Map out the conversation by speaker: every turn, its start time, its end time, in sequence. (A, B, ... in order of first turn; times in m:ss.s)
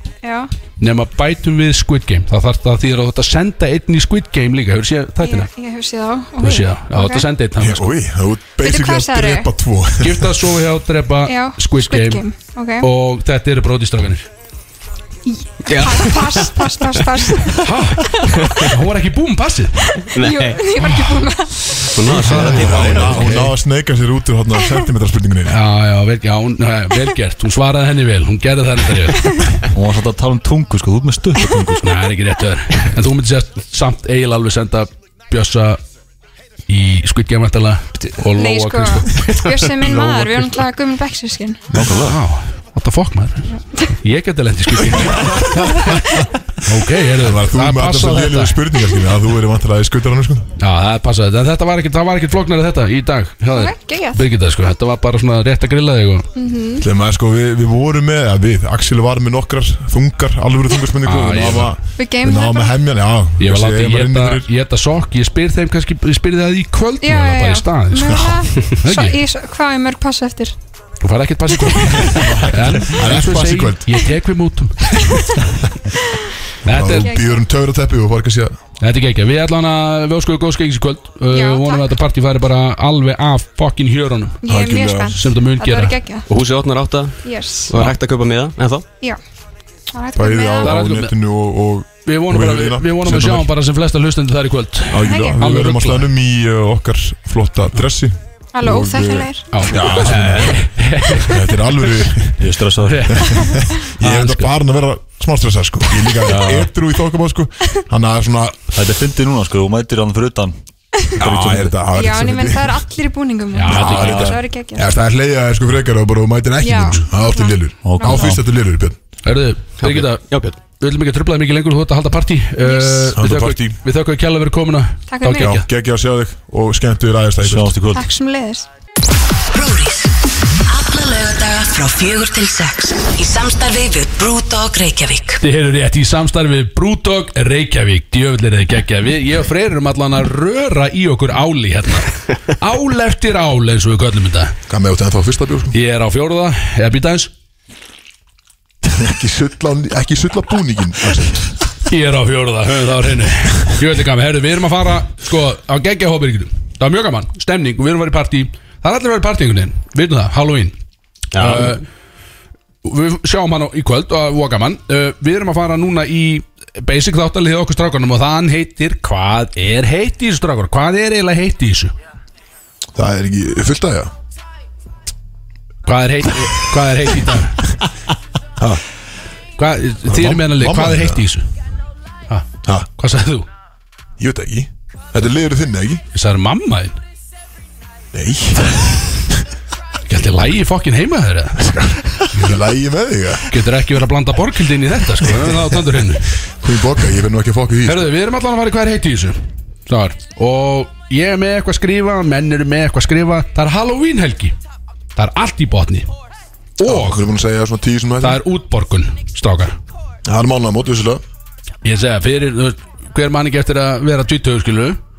0:00.2-0:00.5 A
0:00.8-0:05.5 B
0:05.2-0:07.3 A
0:06.4-0:07.9 B
0:07.6-0:10.5 C
0:08.6-0:09.5 A
0:10.0-0:12.2 B
0:11.2-0:12.9 A
0:12.8-0:14.2 B
0:15.2-0:18.7 A
0:15.6-0:17.6 D
0:17.6-0:20.0 B
0:20.0-0:22.0 A
0:20.1-0:20.6 D
0:20.8-0:21.2 B
0:21.9-0:23.3 D
0:22.2-0:25.6 C
0:22.2-0:23.5 B
0:22.2-0:23.5 E
0:25.5-0:29.5 B
0:29.2-0:29.6 A
0:29.7-0:31.8 E
0:31.8-0:35.8 B
0:36.7-0:39.2 B
0:38.3-0:41.7 A
0:39.2-0:40.4 D
0:41.7-0:42.2 E
0:41.8-0:48.6 B
0:47.2-0:50.5 C
0:50.6-0:56.3 B
0:53.5-0:54.2 A
0:56.3-0:56.9 A
0:56.8-1:04.5 C
1:01.0-1:01.7 B
1:02.0-1:02.8 A
1:03.4-1:09.2 B
1:07.0-1:10.5 A
1:08.1-1:08.4 C
1:11.0-1:15.3 B
1:11.5-1:12.4 A
1:12.0-1:14.1 C
1:16.6-1:17.1 B
1:16.6-1:18.6 C
1:17.0-1:17.4 A
1:18.8-1:24.4 B
1:21.3-1:21.9 A
1:24.4-1:26.3 A
1:24.4-1:25.2 C
1:25.1-1:26.0 B
1:26.3-1:28.8 D
1:27.2-1:27.7 A
1:29.9-1:30.8 A
1:30.1-1:33.5 C
1:30.6-1:31.1 B
1:32.0-1:36.1 B
1:34.9-1:38.1 C
1:35.0-1:35.4 A
1:38.5-1:39.8 A
1:38.6-1:39.3 E
1:39.5-1:41.7 B
1:39.6-1:42.6 C
1:40.0-1:40.5 D
1:42.4-1:43.2 E
1:42.8-1:44.5 B
1:43.1-1:48.7 C
1:46.2-1:46.7 E
1:48.7-1:50.5 E
1:51.2-1:52.8 C
1:51.2-1:51.8 E
1:51.9-1:54.9 A
1:53.5-1:54.4 B
1:53.7-1:59.0 C
1:53.9-1:54.4 E
1:56.6-1:58.3 A
1:57.8-1:58.4 E
1:59.2-2:05.7 B
1:59.8-2:00.6 D
2:02.6-2:03.2 A
2:03.1-2:03.8 C
2:05.1-2:05.5 A
2:05.4-2:07.8 C
2:07.4-2:08.0 E
2:07.9-2:08.7 A
2:09.5-2:10.1 F
2:10.6-2:15.4 F
2:15.4-2:24.6 B
2:24.7-2:25.8 C
2:25.7-2:27.3 B
2:28.8-2:31.5 C
2:31.9-2:40.7 B
2:41.3-2:41.8 D
2:41.4-2:41.8 B
2:42.8-2:51.9 B
2:52.9-2:54.1 C
2:55.8-2:57.7 B
2:58.6-2:58.8 C
2:59.6-3:01.5 B
3:00.0-3:01.2 C
3:03.0-3:03.5 B
3:04.2-3:06.0 C
3:06.1-3:07.0 B
3:08.1-3:09.3 C
3:10.1-3:11.7 B
3:11.6-3:13.5 C
3:12.3-3:12.6 B
3:13.5-3:16.4 B
3:16.4-3:18.1 C
3:17.8-3:24.5 B
3:25.2-3:26.1 B
3:26.8-3:27.2 B
3:26.8-3:28.4 C
3:28.2-3:29.8 B
3:30.2-3:31.2 C
3:31.8-3:35.0 B